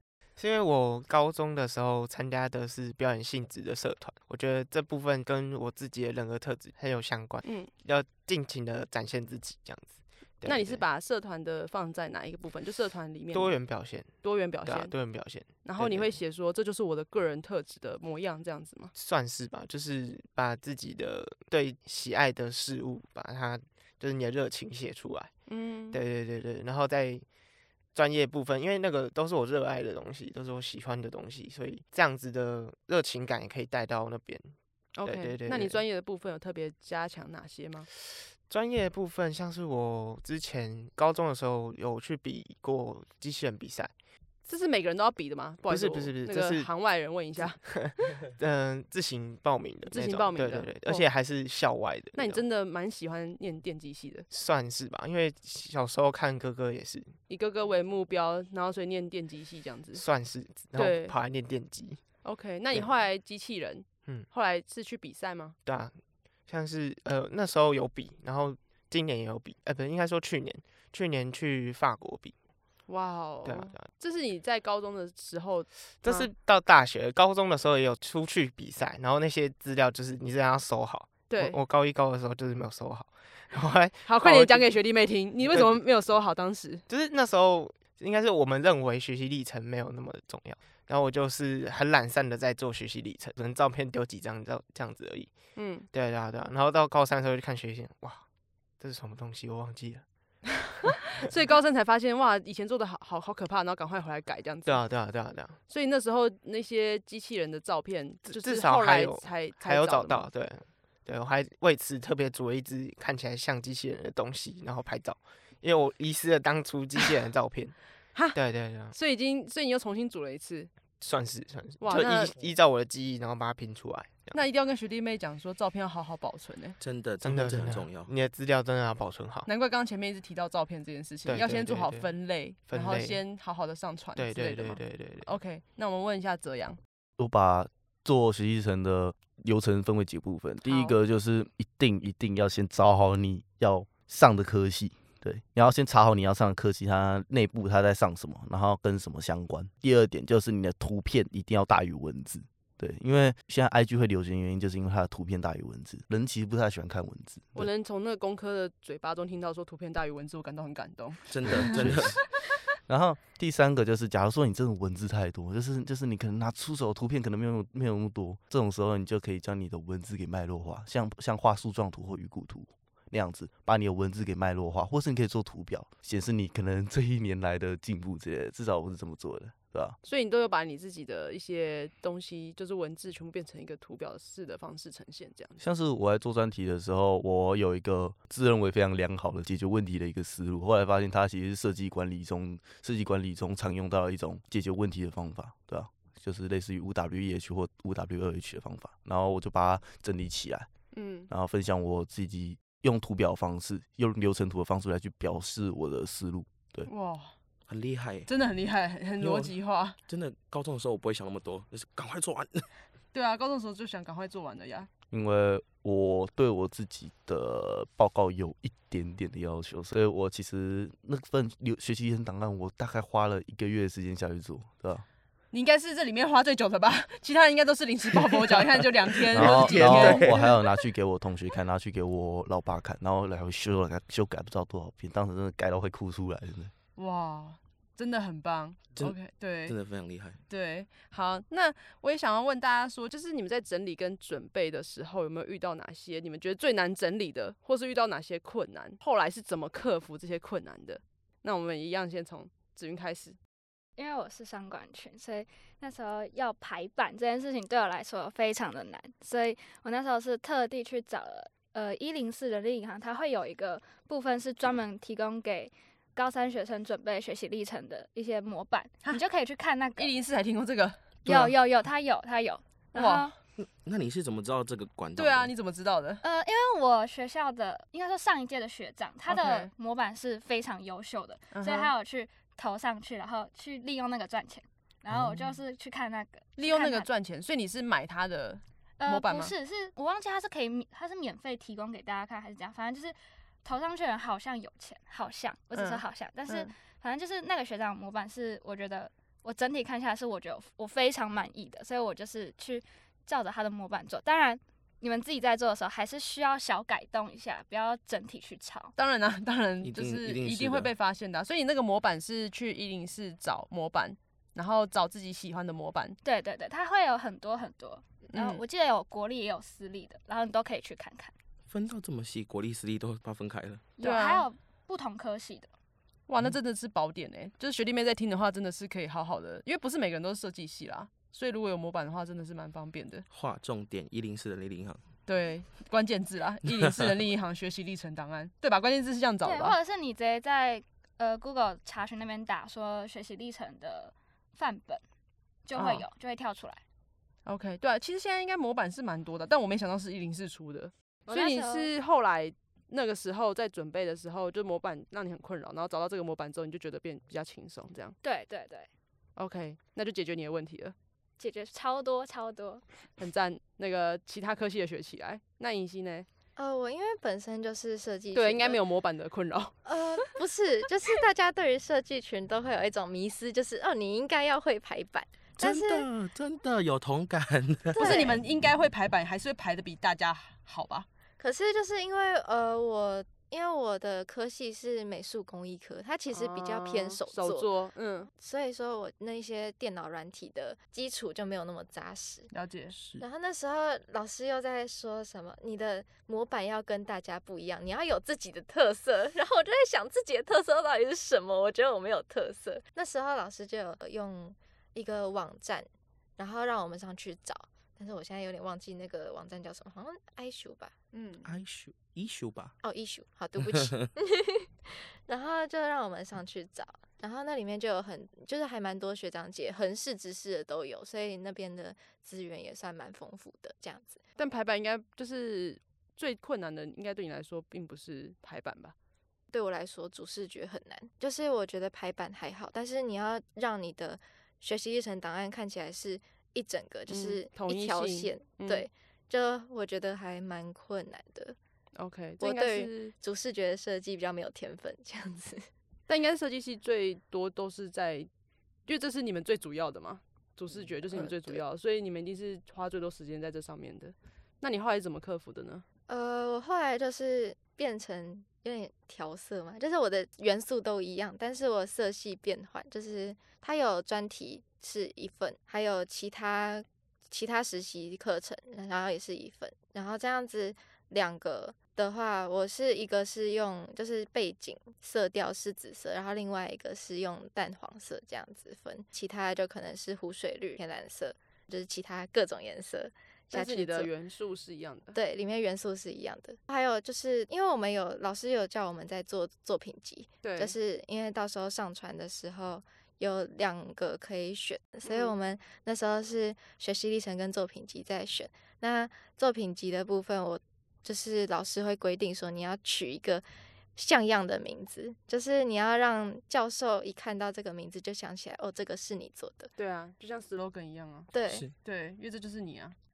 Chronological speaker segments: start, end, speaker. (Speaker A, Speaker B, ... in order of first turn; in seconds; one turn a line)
Speaker A: 0.4-10.8
Speaker B: 7.4-7.7
Speaker B: 10.4-14.9
Speaker A: 13.3-16.2
Speaker B: 15.5-18.9
Speaker A: 18.9-25.3
Speaker B: 25.5-26.0
Speaker A: 25.9-27.2
Speaker A: 27.9-35.8
Speaker B: 35.0-37.9
Speaker A: 38.5-43.9
Speaker B: 44.5-47.6
Speaker A: 45.6-46.7
Speaker A: 47.6-52.4
Speaker B: 49.9-51.0
Speaker B: 52.1-54.3
Speaker A: 54.3-57.1
Speaker B: 57.3-60.0
Speaker A: 59.9-62.0
Speaker B: 60.7-61.1
Speaker B: 62.2-65.5
Speaker A: 65.6-72.3
Speaker B: 72.9-76.3
Speaker A: 73.4-73.8
Speaker A: 76.0-84.7
Speaker B: 81.3-81.6
Speaker B: 84.0-86.8
Speaker A: 85.5-85.8
Speaker A: 86.9-95.3
Speaker B: 95.5-95.9
Speaker A: 95.9-98.2
Speaker A: 98.8-100.0
Speaker B: 101.1-104.8
Speaker A: 104.7-105.6
Speaker B: 105.7-110.3
Speaker A: 108.2-117.8
Speaker A: 118.3-118.9
Speaker B: 118.9-120.7
Speaker A: 121.0-124.4
Speaker B: 121.8-122.3
Speaker B: 124.3-126.8
Speaker C: 126.8-128.1
Speaker A: 127.2-129.5
Speaker B: 129.4-136.8
Speaker A: 131.2-132.1
Speaker A: 132.7-133.2
Speaker A: 134.2-135.2
Speaker D: 137.2-157.7
Speaker B: 140.6-140.9
Speaker B: 157.5-161.7
Speaker C: 161.3-162.2
Speaker D: 161.7-162.2
Speaker D: 162.9-179.9
Speaker B: 180.0-185.6
Speaker D: 185.6-200.7
Speaker B: 200.9-201.3
Speaker D: 201.3-206.9
Speaker B: 206.8-207.3
Speaker C: 207.7-208.3
Speaker B: 208.3-210.0
Speaker C: 209.2-209.5
Speaker C: 210.1-212.7
Speaker B: 213.1-214.9
Speaker D: 215.1-225.0
Speaker B: 225.5-230.3
Speaker C: 229.3-230.4
Speaker D: 229.3-236.7
Speaker B: 236.9-239.7
Speaker C: 238.9-240.4
Speaker B: 240.5-253.4
Speaker E: 254.0-270.1
Speaker B: 269.9-271.0
Speaker E: 271.2-273.3
Speaker B: 272.9-273.3
Speaker C: 273.6-275.5
Speaker B: 275.1-276.2
Speaker E: 276.2-287.1
Speaker B: 279.3-279.7
Speaker B: 281.5-281.9
Speaker B: 286.6-289.5
Speaker E: 289.0-308.9
Speaker B: 295.7-296.7
Speaker B: 308.9-316.2
Speaker C: 309.8-310.9
Speaker E: 316.2-321.3
Speaker B: 318.3-318.6
Speaker C: 321.7-323.9
Speaker E: 324.0-325.7
Speaker B: 324.0-324.5
Speaker B: 326.3-333.2
Speaker C: 333.3-335.0
Speaker B: 335.2-339.8
Speaker E: 339.4-345.0
Speaker E: 345.6-346.8
Speaker B: 345.7-346.0
Speaker B: 347.4-358.1
Speaker E: 351.3-351.9
Speaker E: 358.2-358.9
Speaker B: 359.4-360.9
Speaker E: 361.4-362.8
Speaker B: 363.2-366.3
Speaker F: 366.6-368.8
Speaker B: 368.3-369.8
Speaker F: 369.8-376.1
Speaker C: 375.6-378.3
Speaker F: 377.9-378.4
Speaker B: 377.9-381.1
Speaker F: 381.4-387.7
Speaker B: 386.3-388.3
Speaker F: 388.4-392.5
Speaker B: 392.5-392.9
Speaker C: 392.9-393.2
Speaker F: 393.2-405.9
Speaker F: 406.4-410.9
Speaker B: 411.1-411.4
Speaker C: 411.4-412.8
Speaker F: 412.8-424.2
Speaker C: 413.7-414.0
Speaker B: 424.4-428.9
Speaker F: 429.5-441.6
Speaker B: 437.1-438.9
Speaker B: 442.0-443.1
Speaker F: 442.4-445.7
Speaker B: 446.1-448.3
Speaker B: 448.9-455.8
Speaker F: 451.1-451.6
Speaker F: 456.1-484.1
Speaker B: 483.5-485.2
Speaker F: 485.1-503.4
Speaker B: 490.4-490.7
Speaker B: 495.0-495.3
Speaker F: 503.9-509.7
Speaker B: 509.8-511.3
Speaker F: 511.3-511.6
Speaker B: 511.8-513.0